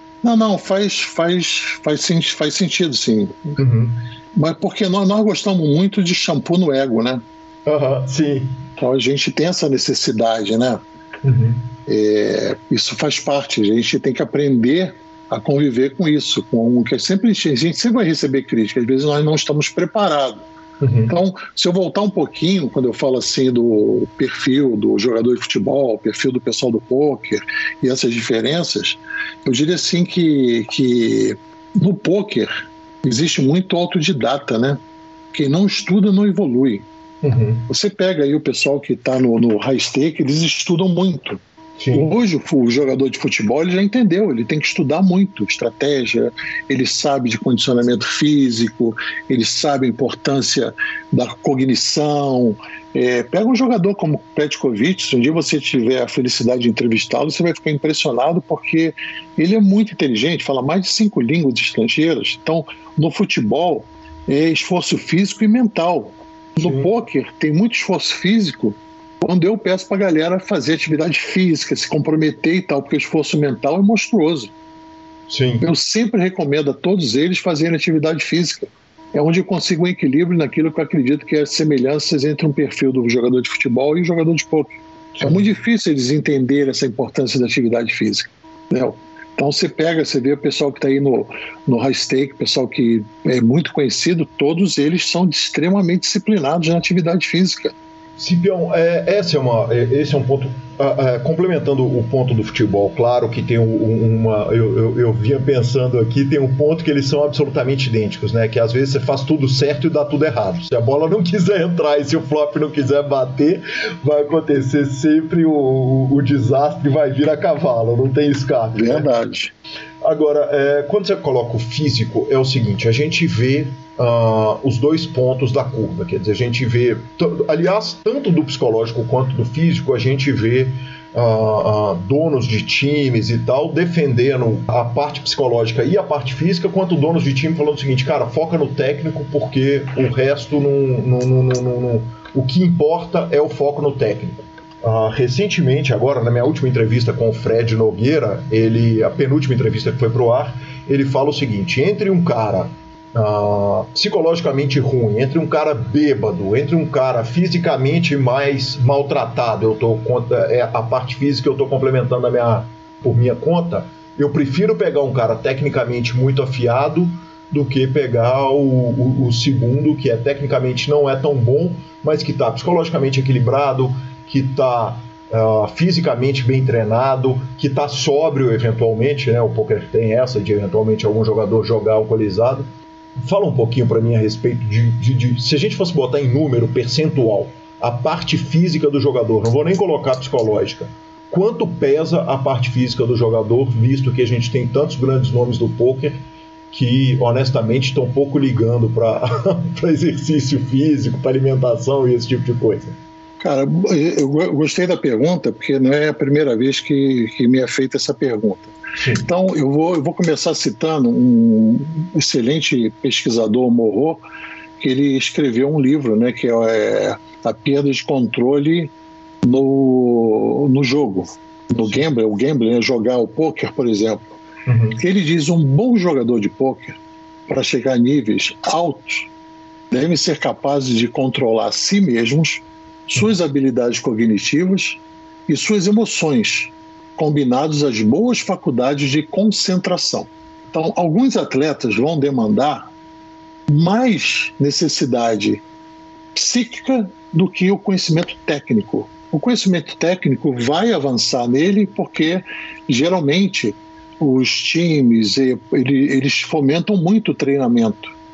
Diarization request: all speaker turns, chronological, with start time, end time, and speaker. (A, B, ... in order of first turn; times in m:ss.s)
0:00.2-0:03.6 A
0:03.6-0:04.0 B
0:04.4-0:07.2 A
0:07.7-0:08.6 B
0:08.8-0:10.8 A
0:11.2-0:11.6 B
0:11.9-0:20.5 A
0:20.8-0:21.2 B
0:21.1-0:32.5 A
0:33.0-0:34.8 A
0:35.3-0:36.9 A
0:37.2-0:37.7 B
0:37.7-0:41.4 A
0:41.8-0:42.1 B
0:41.9-1:14.5 A
1:06.6-1:06.9 B
1:15.3-1:15.7 B
1:15.6-1:37.7 A
1:25.2-1:25.4 B
1:38.2-1:59.1 B
1:58.8-1:59.5 A
2:00.0-3:02.7 B
3:03.2-3:16.2 B
3:16.7-3:23.0 B
3:23.4-3:34.2 A
3:29.0-3:29.3 B
3:34.8-3:38.9 A
3:39.4-3:44.3 A
3:44.7-3:45.0 B
3:45.0-3:49.3 A
3:49.9-4:02.9 A
4:03.7-4:05.6 A
4:06.3-4:18.1 A